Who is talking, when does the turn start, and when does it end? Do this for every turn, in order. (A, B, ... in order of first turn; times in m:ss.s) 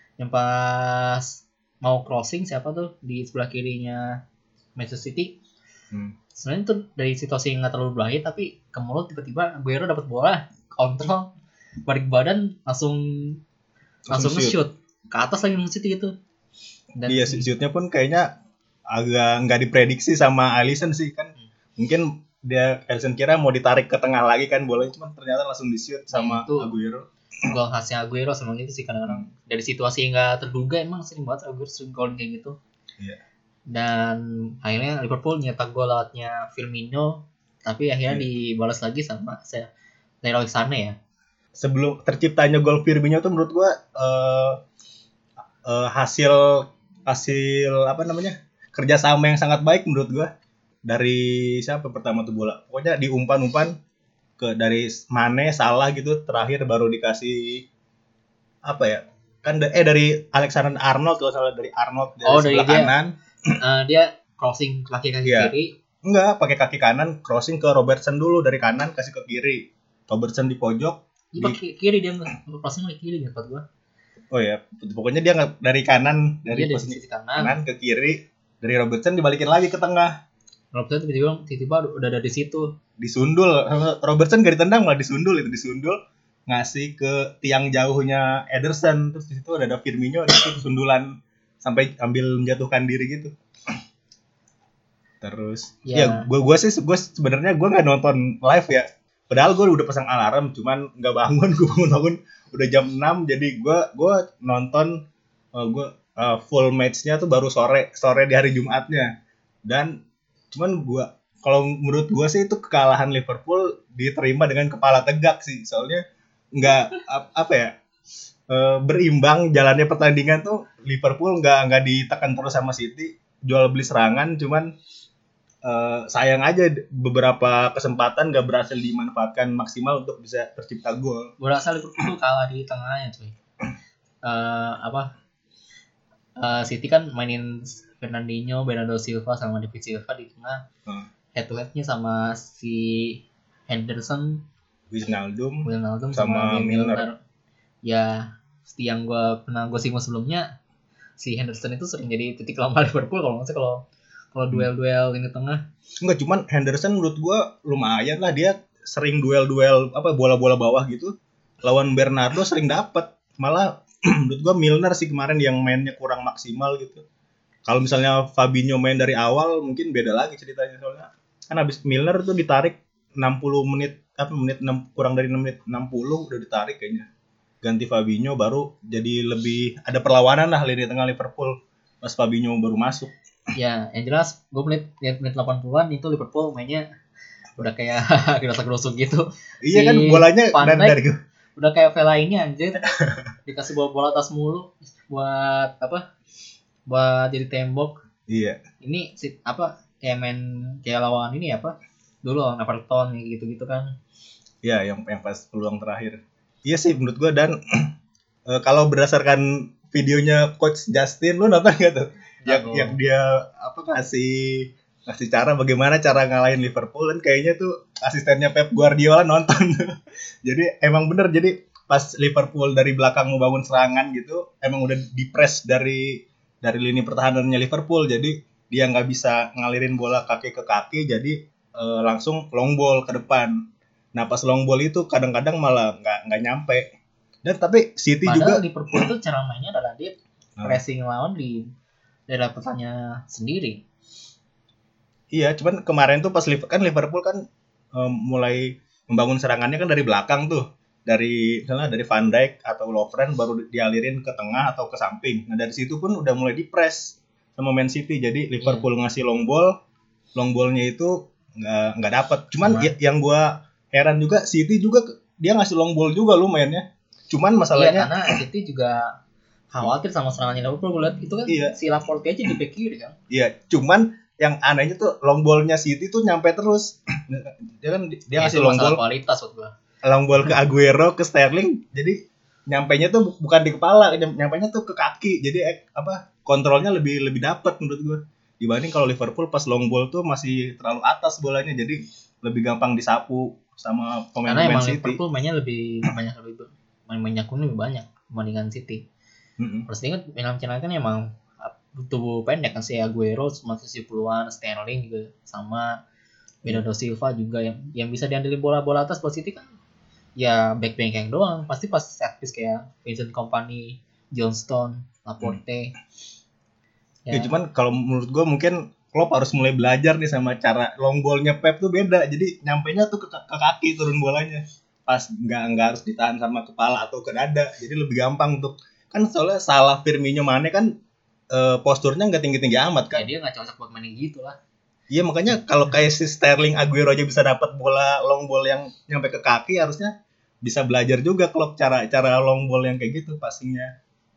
0:00.2-0:04.2 A
0:04.8-0:05.3 A
0:06.4-0:11.3 A
0:11.9-0:13.4 A
0:14.1-0:14.6 B
0:14.1-0:16.1 A
0:17.0-0:17.5 A
0:17.1-0:18.3 B
0:18.9-0:27.1 B
0:26.1-0:26.7 A
0:27.5-0:32.6 A
0:33.7-0:39.7 A
0:40.2-0:41.0 A
0:41.6-0:44.6 B
0:45.6-0:50.3 B
0:50.9-0:53.8 B
0:54.4-0:57.6 B
0:58.7-1:03.5 B
1:02.2-1:02.9 A
1:03.6-1:05.7 A
1:05.2-1:05.5 B
1:06.0-1:11.6 B
1:11.3-1:13.6 A
1:14.3-1:20.1 B
1:16.5-1:17.5 A
1:20.7-1:22.7 A
1:23.0-1:33.8 B
1:35.2-1:45.0 B
1:35.9-1:36.3 A
1:45.6-1:49.1 B
1:49.7-1:49.9 B
1:50.5-1:56.0 B
1:56.5-1:57.7 B
1:58.5-2:04.7 B
2:05.6-2:11.3 B
2:11.4-2:13.4 A
2:14.2-2:15.1 A
2:16.4-2:20.6 A
2:21.4-2:24.4 A
2:24.9-2:27.1 B
2:25.6-2:27.2 A
2:27.8-2:30.5 A
2:31.2-2:35.6 A
2:36.0-2:47.0 B
2:47.7-2:57.1 B
2:57.6-3:03.1 B
3:03.5-3:06.8 A
3:07.6-3:11.0 A
3:09.6-3:11.2 B
3:11.6-3:12.8 A
3:13.5-3:16.0 A
3:16.9-3:18.0 A
3:18.3-3:18.6 B
3:18.8-3:23.9 A
3:24.6-3:27.9 B
3:28.5-3:53.6 B
3:32.4-3:33.0 A
3:54.2-3:56.9 B
3:57.4-3:59.0 B
3:58.3-4:01.7 A
4:02.3-4:03.8 A
4:05.3-4:07.4 B
4:07.9-4:19.7 B
4:20.4-4:28.1 B
4:22.6-4:22.9 A
4:27.8-4:29.2 A
4:29.7-4:33.2 A
4:31.5-4:31.8 B
4:33.3-4:39.0 B
4:38.4-4:39.7 A
4:40.0-4:55.2 B
4:54.5-4:59.0 A
4:59.6-4:59.9 B
4:59.9-5:05.9 A
5:06.6-5:09.7 A
5:10.4-5:15.9 A
5:17.3-5:17.5 A
5:17.3-5:30.9 B
5:31.5-5:33.3 B
5:33.1-5:34.6 A
5:35.1-5:40.1 B
5:40.6-5:43.9 B